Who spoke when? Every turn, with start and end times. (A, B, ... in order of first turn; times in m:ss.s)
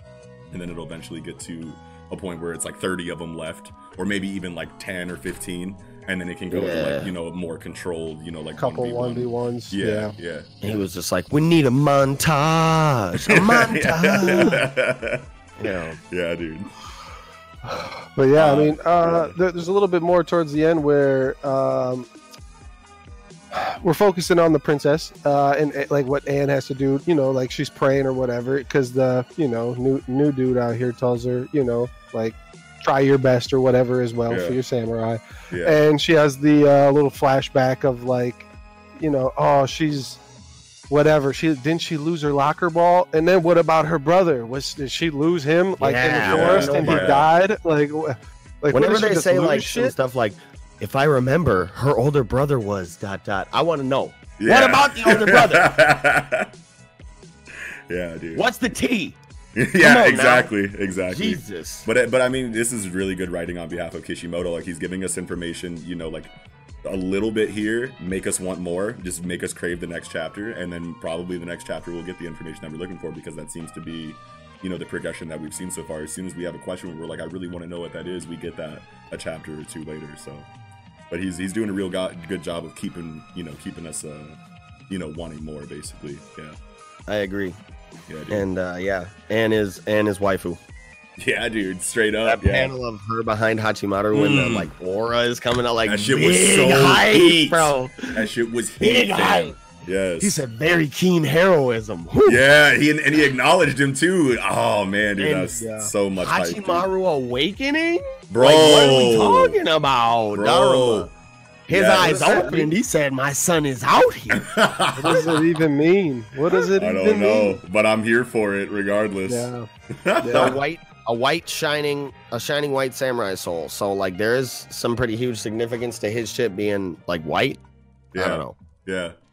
0:00.5-0:10.7 A
0:06.5-0:07.1 B
0:08.6-0:10.1 C
0:10.6-0:14.6 B
0:13.2-0:16.7 A
0:15.6-0:16.0 B
0:17.6-0:22.1 C
0:18.4-0:19.3 A
0:23.5-0:38.5 C
0:34.3-0:34.6 A
0:35.5-0:35.8 A
0:39.0-0:40.2 C
0:40.9-0:49.9 C
0:45.8-0:47.2 B
0:46.2-0:47.3 A
0:48.7-0:55.7 B
0:54.4-0:56.5 A
0:57.9-0:58.4 A
0:58.3-0:59.2 B
0:59.6-1:06.3 A
0:59.8-1:00.5 B
1:01.1-1:01.9 B
1:06.8-1:20.5 A
1:21.1-1:24.4 A
1:24.9-1:26.6 A
1:27.1-1:27.6 B
1:28.1-1:28.4 A
1:28.3-1:30.6 B
1:31.2-1:32.7 A
1:32.2-1:38.3 B
1:34.1-1:34.7 A
1:35.8-1:40.4 A
1:38.8-1:39.6 B
1:40.2-1:42.4 B
1:42.2-1:46.9 A
1:45.2-1:45.6 B
1:45.6-1:45.9 C
1:46.2-1:51.1 B
1:48.3-1:49.6 A
1:50.3-1:51.1 A
1:51.7-1:54.5 B
1:51.7-1:52.6 A
1:52.0-1:52.6 C
1:54.3-1:55.3 A
1:54.9-1:57.6 C
1:56.7-2:00.6 A
1:59.3-1:59.7 C
2:00.2-2:00.6 C
2:00.3-2:07.6 B
2:08.1-2:08.5 B
2:08.1-2:09.1 A